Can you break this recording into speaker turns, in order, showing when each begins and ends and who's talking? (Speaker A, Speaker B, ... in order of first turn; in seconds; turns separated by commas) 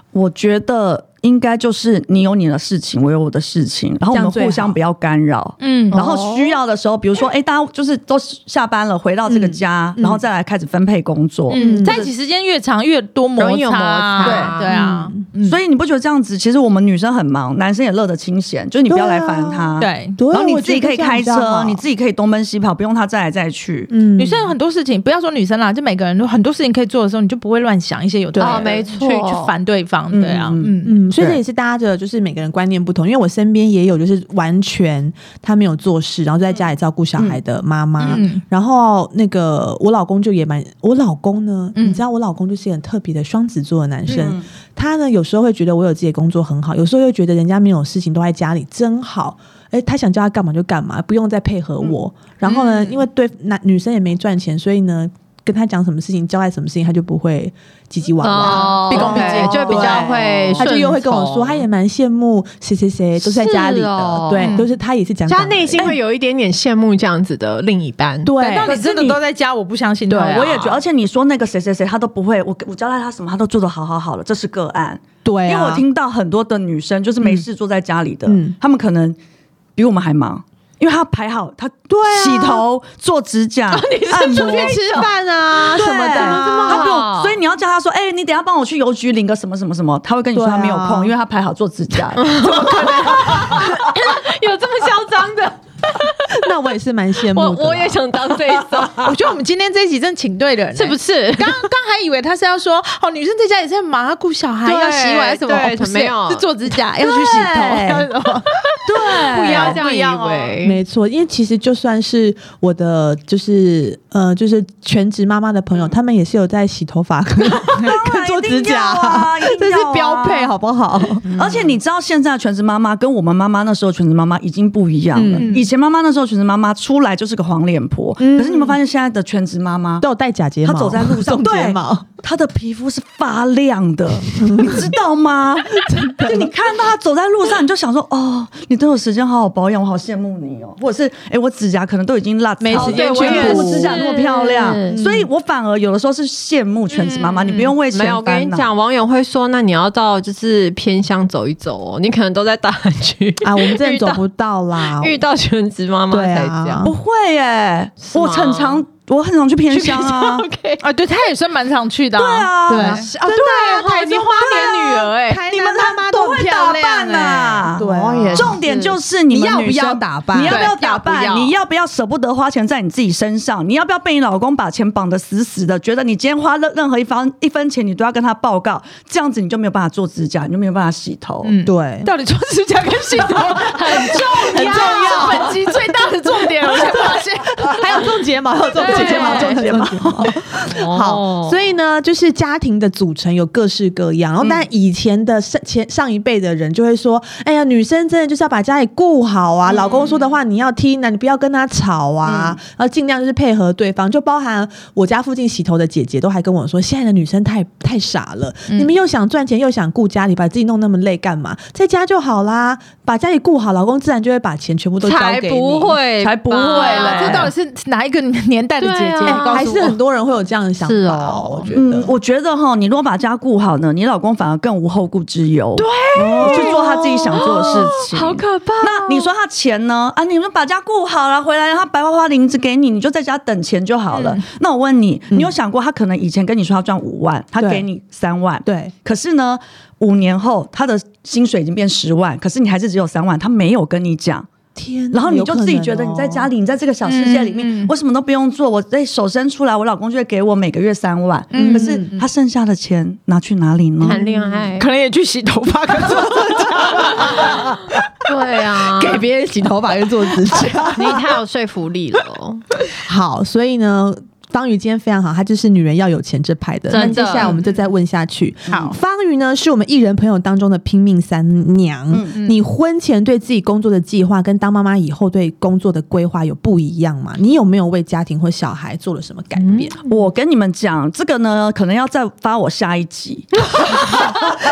Speaker A: 0.1-12.1, Speaker B: 4.1-4.8, Speaker C: 5.6-6.1, Speaker D: 5.9-6.6, Speaker B: 9.3-10.2, Speaker C: 11.5-15.6, Speaker B: 11.5-12.0, Speaker D: 13.4-14.7, Speaker A: 14.2-14.5, Speaker B: 14.6-15.2, Speaker A: 15.4-23.9, Speaker B: 18.9-21.8, Speaker C: 19.8-20.2, Speaker B: 23.9-24.5, Speaker C: 24.2-31.0, Speaker B: 28.4-28.6, Speaker D: 28.4-29.5, Speaker A: 30.1-31.4, Speaker B: 30.8-65.9, Speaker C: 38.0-38.4, Speaker C: 41.8-42.0, Speaker A: 44.1-44.5, Speaker C: 52.5-53.0, Speaker D: 58.2-61.6, Speaker C: 58.4-60.8, Speaker D: 63.2-64.6, Speaker C: 64.4-64.7, Speaker D: 65.3-68.3, Speaker B: 68.2-68.8, Speaker C: 68.4-70.8, Speaker A: 68.7-69.2, Speaker D: 70.1-70.7, Speaker A: 70.2-79.2, Speaker B: 75.2-75.8, Speaker B: 78.3-78.6, Speaker A: 79.8-92.7, Speaker B: 81.9-82.7, Speaker D: 83.7-85.1, Speaker B: 84.3-86.9, Speaker D: 85.9-87.4, Speaker B: 90.3-91.1, Speaker D: 92.2-96.4, Speaker C: 92.4-93.7, Speaker B: 96.3-98.0, Speaker D: 97.3-99.1, Speaker C: 99.0-110.6, Speaker D: 100.8-101.7, Speaker D: 104.6-106.5, Speaker A: 107.0-108.1, Speaker D: 108.5-110.8, Speaker A: 108.8-109.8, Speaker B: 110.6-121.6, Speaker A: 117.7-120.5, Speaker A: 121.3-130.1, Speaker B: 125.1-125.6, Speaker C: 125.3-125.7, Speaker B: 128.2-128.8, Speaker B: 130.0-132.1, Speaker A: 130.7-148.7, Speaker B: 134.3-134.9, Speaker B: 135.7-136.5, Speaker B: 142.6-144.0, Speaker D: 142.8-145.0, Speaker B: 144.9-145.3, Speaker C: 147.0-147.6, Speaker D: 147.3-154.2, Speaker B: 153.4-155.2, Speaker D: 154.9-156.8, Speaker B: 156.1-156.9, Speaker A: 156.8-160.5, Speaker D: 158.0-158.8, Speaker D: 159.7-160.8, Speaker C: 160.8-163.1, Speaker A: 162.1-163.0, Speaker B: 162.7-168.6, Speaker D: 162.9-165.4, Speaker C: 164.0-164.7, Speaker A: 165.5-181.6, Speaker C: 166.3-168.3, Speaker D: 167.8-169.0, Speaker B: 169.3-170.7, Speaker D: 170.5-171.5, Speaker C: 181.4-188.0, Speaker B: 181.7-182.1, Speaker B: 183.3-185.8, Speaker D: 183.4-185.6, Speaker D: 186.7-187.2, Speaker B: 186.7-216.0, Speaker C: 188.7-189.7, Speaker D: 188.7-189.6, Speaker A: 188.8-190.4, Speaker D: 190.7-191.6, Speaker D: 199.7-200.2, Speaker A: 202.2-202.6, Speaker D: 215.0-217.5, Speaker A: 216.2-217.5, Speaker C: 216.5-220.0, Speaker D: 218.8-219.7, Speaker B: 219.2-222.2, Speaker D: 220.8-221.7, Speaker A: 221.7-244.5, Speaker D: 225.8-229.3, Speaker B: 226.4-226.9, Speaker C: 234.2-234.4, Speaker B: 237.6-237.9, Speaker B: 238.7-238.9, Speaker B: 244.8-246.5, Speaker A: 245.1-254.2, Speaker C: 247.0-247.9, Speaker C: 251.5-252.2, Speaker D: 251.5-251.8, Speaker B: 251.7-252.1, Speaker D: 254.0-254.9, Speaker C: 254.1-257.8, Speaker B: 257.0-257.7, Speaker D: 258.2-259.2, Speaker B: 258.9-261.3, Speaker C: 260.5-261.1, Speaker D: 260.9-262.6, Speaker B: 263.1-280.0, Speaker D: 266.9-267.6, Speaker C: 266.9-267.7, Speaker A: 272.1-272.4, Speaker D: 279.6-280.0, Speaker A: 280.1-284.0, Speaker B: 283.9-284.4